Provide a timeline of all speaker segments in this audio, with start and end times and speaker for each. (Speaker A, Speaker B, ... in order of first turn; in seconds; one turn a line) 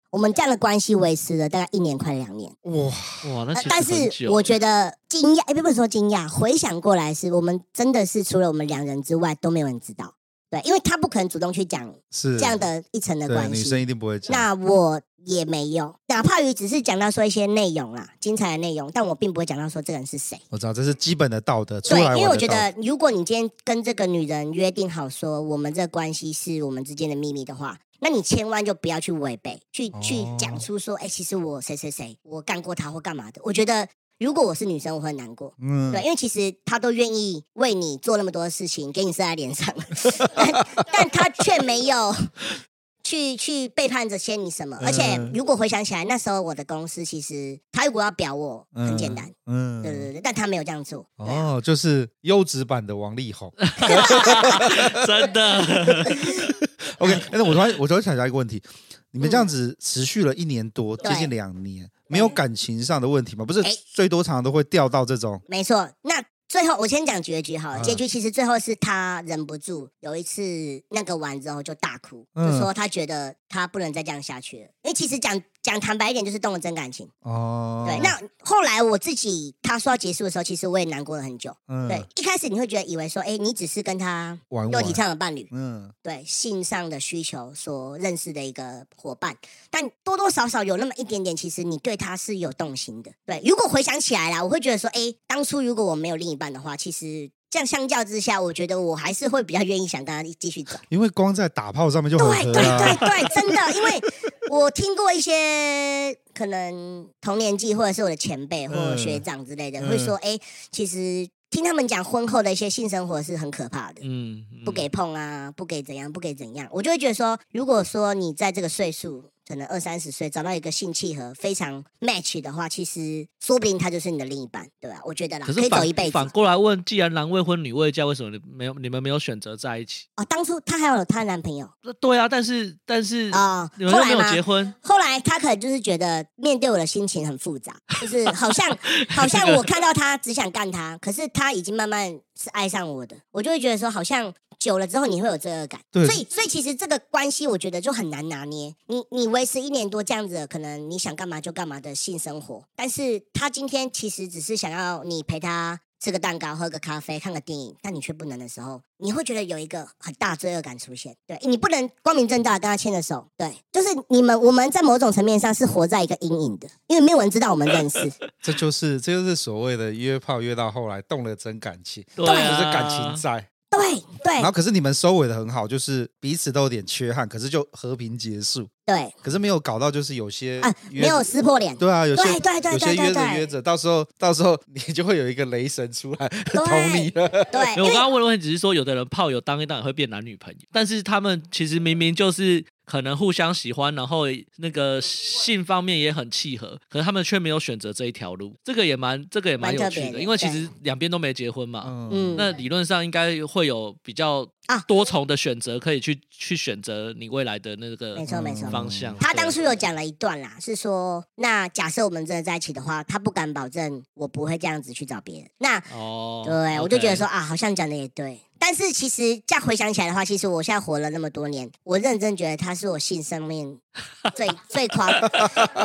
Speaker A: 0.1-2.5
Speaker B: 2.6-3.3
Speaker C: 3.2-4.5
Speaker A: 3.6-20.4
Speaker B: 12.1-12.7
Speaker B: 13.3-14.5
Speaker B: 20.5-22.7
Speaker A: 21.9-42.1
Speaker B: 29.9-30.6
Speaker B: 35.6-36.0
Speaker A: 43.0-51.5
Speaker B: 44.8-45.4
Speaker B: 48.8-50.1
Speaker B: 51.2-55.0
Speaker C: 53.6-56.3
Speaker A: 53.8-54.5
Speaker B: 57.0-65.4
Speaker A: 59.2-59.5
Speaker A: 61.0-61.3
Speaker A: 62.1-62.4
Speaker A: 65.5-77.1
Speaker B: 67.7-68.0
Speaker B: 72.4-72.7
Speaker B: 77.2-78.2
Speaker A: 77.8-85.5
Speaker B: 81.7-82.1
Speaker B: 84.5-85.9
Speaker A: 86.0-100.8
Speaker B: 100.9-103.1
Speaker A: 102.2-114.0
Speaker C: 102.6-102.9
Speaker B: 108.7-109.2
Speaker B: 109.8-110.1
Speaker C: 114.0-114.9
Speaker A: 114.7-126.3
Speaker C: 125.5-130.1
Speaker A: 130.2-131.7
Speaker C: 131.8-134.8
Speaker A: 133.3-168.2
Speaker C: 139.0-139.6
Speaker B: 145.9-146.2
Speaker B: 168.4-173.5
Speaker C: 172.2-173.2
Speaker A: 172.2-172.6
Speaker A: 173.7-174.5
Speaker B: 174.4-178.7
Speaker A: 178.9-179.1
Speaker B: 179.2-181.3
Speaker A: 180.6-183.5
Speaker B: 181.8-187.6
Speaker A: 186.5-188.0
Speaker C: 187.8-209.6
Speaker A: 199.6-200.7
Speaker B: 201.8-202.5
Speaker A: 202.1-202.5
Speaker A: 208.2-215.9
Speaker B: 208.3-209.2
Speaker C: 215.9-217.2
Speaker A: 216.4-223.8
Speaker A: 224.3-225.5